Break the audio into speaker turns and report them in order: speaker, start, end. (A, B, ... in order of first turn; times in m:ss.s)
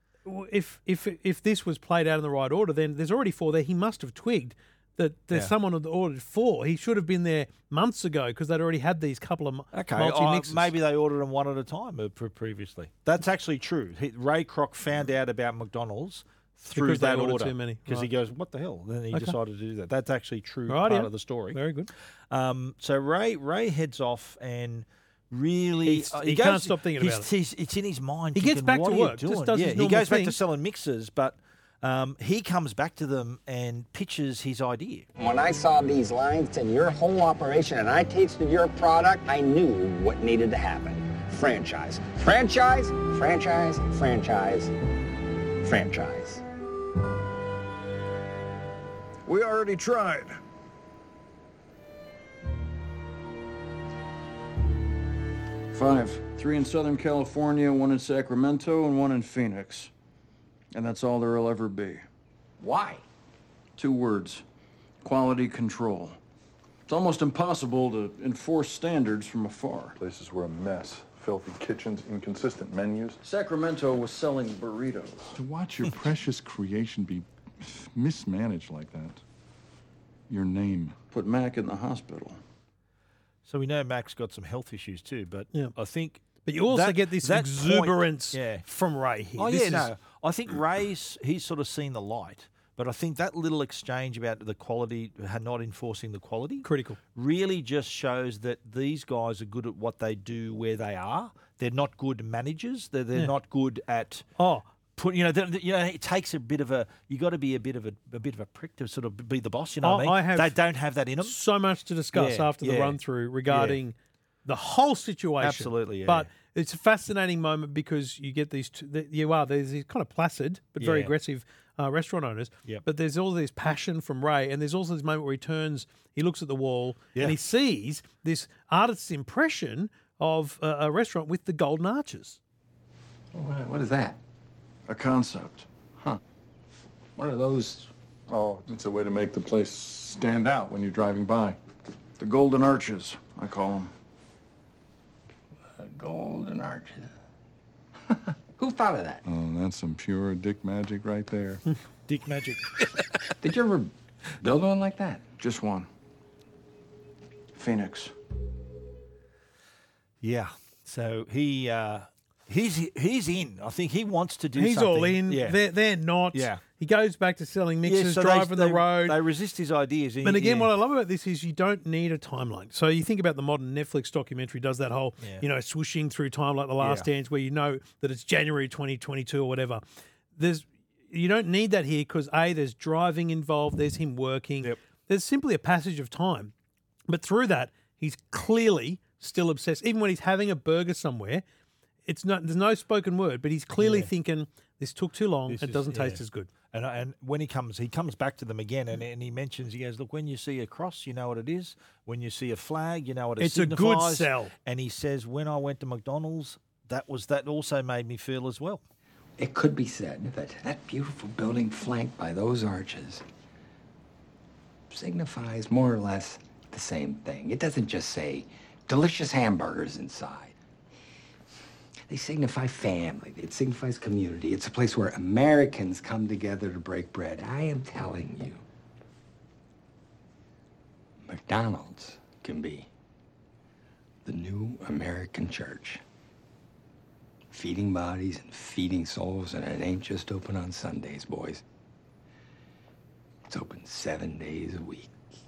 0:00.2-0:10.7 A
0:09.7-0:21.6 B
0:16.7-0:18.1 A
0:20.7-0:21.9 A
0:22.3-0:35.1 B
0:25.8-0:27.3 A
0:28.3-0:30.4 A
0:35.2-0:44.7 C
0:45.6-0:46.4 C
0:49.2-0:50.4 D
0:55.7-0:59.9 D
1:00.7-1:02.0 D
1:02.6-1:03.0 C
1:03.8-1:04.4 D
1:05.0-1:06.2 D
1:06.9-1:10.0 D
1:10.0-1:13.2 E
1:13.2-1:15.3 D
1:15.3-1:19.2 E
1:20.3-1:21.0 E
1:21.1-1:22.4 D
1:23.4-1:28.6 B
1:26.4-1:29.9 A
1:29.4-1:44.2 B
1:36.6-1:37.0 A
1:44.4-1:44.7 A
1:45.0-1:51.4 B
1:49.8-1:50.5 A
1:51.2-2:12.4 A
1:52.1-1:53.8 B
1:55.4-1:56.3 B
2:00.8-2:01.1 B
2:13.3-2:14.2 F
2:14.9-2:15.7 D
2:17.2-2:17.8 F
2:18.3-2:21.6 E
2:22.2-2:23.9 D
2:25.8-2:27.1 F
2:28.6-2:29.2 C
2:29.2-2:31.6 E
2:32.1-2:32.8 B
2:33.4-2:33.9 F
2:34.4-2:35.2 F
2:35.4-2:35.9 D
2:37.5-2:38.1 D
2:40.2-2:45.6 B
2:44.6-2:49.2 A
2:46.3-2:46.6 B
2:47.8-2:50.7 B
2:50.2-2:59.8 A
2:55.2-2:55.4 B
2:56.8-2:57.1 B
3:00.4-3:06.5 A
3:07.1-3:11.4 A
3:12.0-3:16.5 A
3:13.8-3:14.1 B
3:15.5-3:28.8 B
3:23.4-3:24.5 A
3:29.4-3:33.2 F
3:34.9-3:40.5 F
3:42.1-3:48.6 F
3:51.2-3:52.9 F
3:54.2-3:56.0 F
3:57.5-4:01.6 F
4:03.5-4:05.1 F